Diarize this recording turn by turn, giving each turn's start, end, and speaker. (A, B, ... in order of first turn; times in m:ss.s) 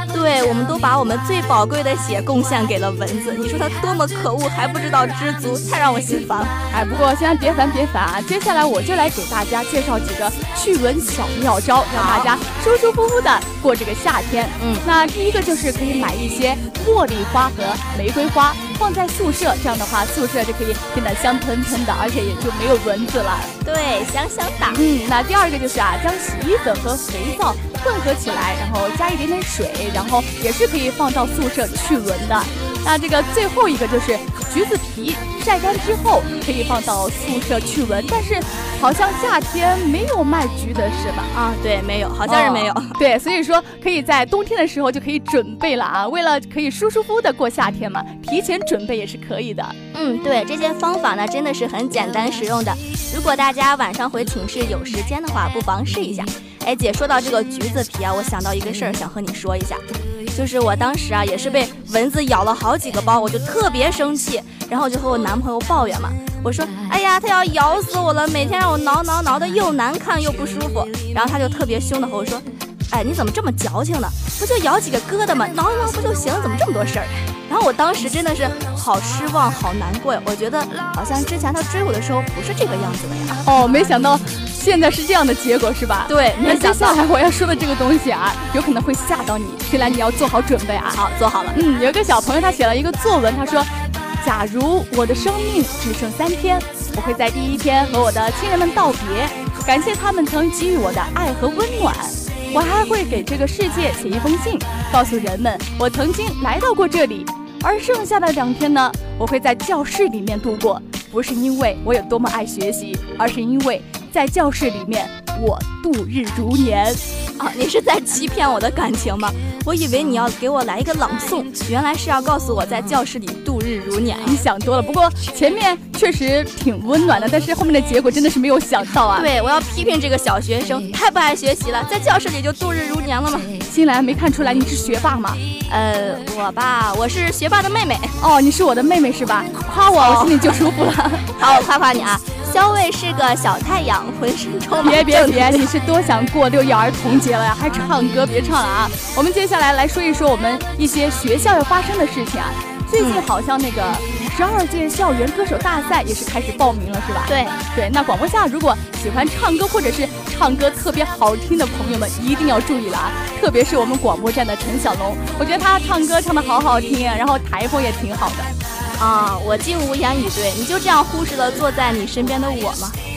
0:00.1-0:06.6 A
0:06.7-0:23.5 B
0:11.9-0:12.3 A
0:14.6-0:14.9 A
0:23.6-0:24.8 A
0:24.7-0:41.3 B
0:41.3-0:43.0 A
0:42.3-0:49.8 B
0:49.9-1:23.4 A
1:23.4-1:31.0 B
1:26.1-1:27.0 A
1:30.9-1:31.6 A
1:31.5-1:57.0 B
1:57.4-2:04.4 A
2:04.2-2:09.3 B
2:09.1-2:13.6 A
2:13.7-2:15.4 B
2:15.7-2:18.2 A
2:18.2-2:21.4 B
2:20.0-2:20.6 A
2:21.4-2:25.7 A
2:24.8-2:48.5 B
2:33.0-2:33.2 A
2:37.3-2:37.6 A
2:49.0-2:53.0 A